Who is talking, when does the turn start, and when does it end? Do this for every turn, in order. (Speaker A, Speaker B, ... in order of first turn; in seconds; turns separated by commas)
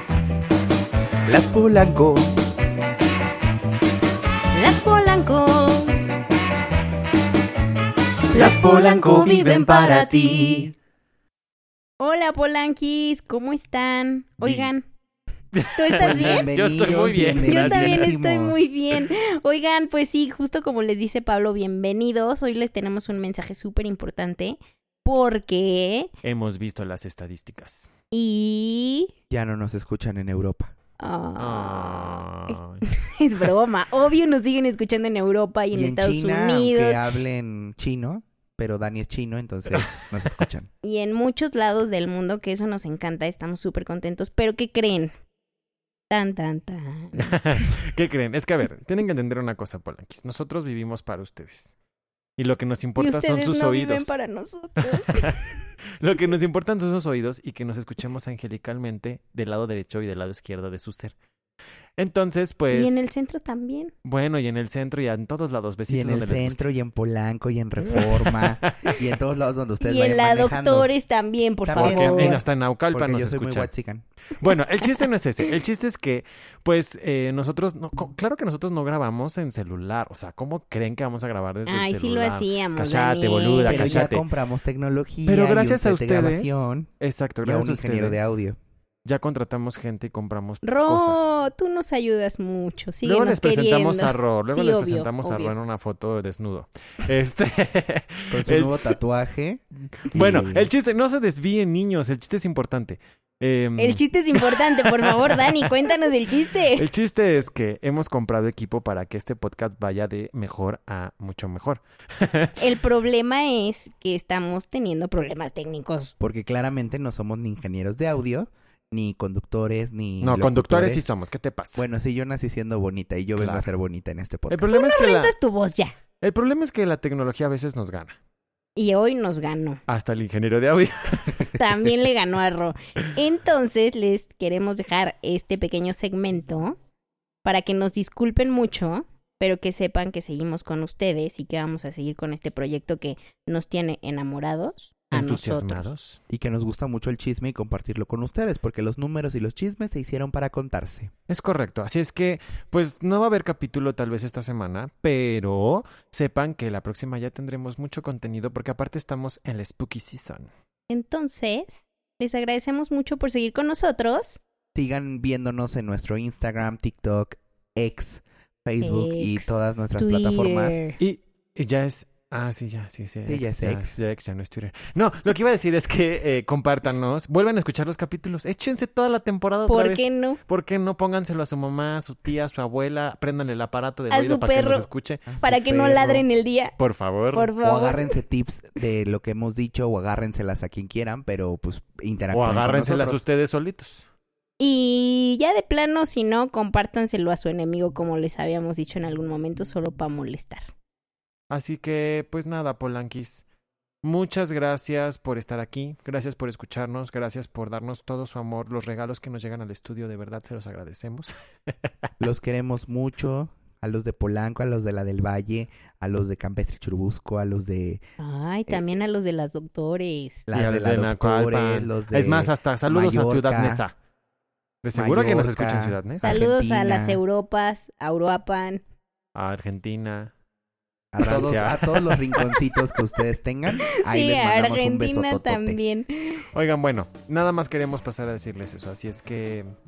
Speaker A: 1.3-2.3, Speaker B: 4.5-6.0, Speaker B: 8.3-10.7, Speaker C: 8.4-10.3, Speaker B: 12.0-14.9, Speaker C: 14.4-14.7, Speaker C: 15.5-18.1, Speaker B: 15.8-16.5, Speaker A: 16.0-18.7, Speaker B: 17.1-26.1, Speaker C: 26.2-27.9, Speaker B: 28.1-29.1, Speaker A: 29.3-30.7, Speaker B: 31.0-32.2, Speaker C: 31.4-32.8, Speaker B: 32.9-37.0, Speaker A: 35.7-40.7, Speaker B: 40.8-45.1, Speaker B: 46.1-47.3, Speaker C: 47.2-51.7, Speaker C: 52.4-54.1, Speaker B: 53.0-55.4, Speaker C: 54.8-55.4, Speaker C: 56.0-61.1, Speaker C: 62.0-63.0, Speaker B: 62.7-63.9, Speaker C: 64.0-66.7, Speaker A: 65.9-70.9, Speaker C: 67.8-69.0, Speaker B: 69.8-72.4, Speaker A: 71.7-74.1, Speaker C: 71.8-73.7, Speaker C: 74.4-84.3, Speaker B: 81.7-84.1, Speaker A: 83.7-86.9, Speaker C: 85.3-88.4, Speaker A: 87.4-88.6, Speaker C: 89.0-91.3, Speaker B: 90.6-95.5, Speaker C: 93.0-99.0, Speaker A: 98.3-99.6, Speaker C: 100.1-112.6, Speaker A: 100.1-100.7, Speaker B: 103.8-106.9, Speaker B: 112.6-116.1, Speaker A: 116.2-121.0, Speaker C: 120.2-121.8, Speaker A: 121.8-124.8, Speaker C: 123.4-123.7, Speaker C: 124.5-125.3, Speaker B: 124.7-126.0, Speaker C: 126.2-128.2, Speaker B: 128.8-129.8, Speaker C: 129.9-132.0, Speaker B: 131.5-136.8, Speaker B: 137.4-145.9, Speaker C: 145.1-146.2, Speaker A: 146.3-151.1, Speaker C: 151.3-160.5, Speaker B: 160.9-164.4, Speaker A: 164.8-170.8, Speaker B: 168.8-171.0, Speaker C: 171.0-185.3, Speaker A: 173.3-174.0, Speaker B: 179.7-180.4, Speaker B: 184.1-184.9, Speaker A: 185.3-186.1, Speaker B: 185.4-186.8, Speaker C: 185.9-186.2, Speaker C: 186.8-187.5, Speaker B: 187.3-188.2, Speaker A: 187.6-193.2, Speaker C: 192.3-194.1, Speaker B: 194.6-200.7, Speaker C: 201.5-203.4, Speaker C: 204.0-211.3, Speaker A: 212.2-218.0, Speaker B: 218.2-220.5, Speaker A: 220.5-223.8, Speaker C: 220.5-223.9, Speaker C: 224.8-226.4, Speaker A: 224.9-227.2, Speaker B: 226.2-228.8, Speaker C: 229.3-230.3, Speaker A: 231.1-235.8, Speaker C: 231.2-232.8, Speaker B: 234.0-236.4, Speaker C: 236.5-239.7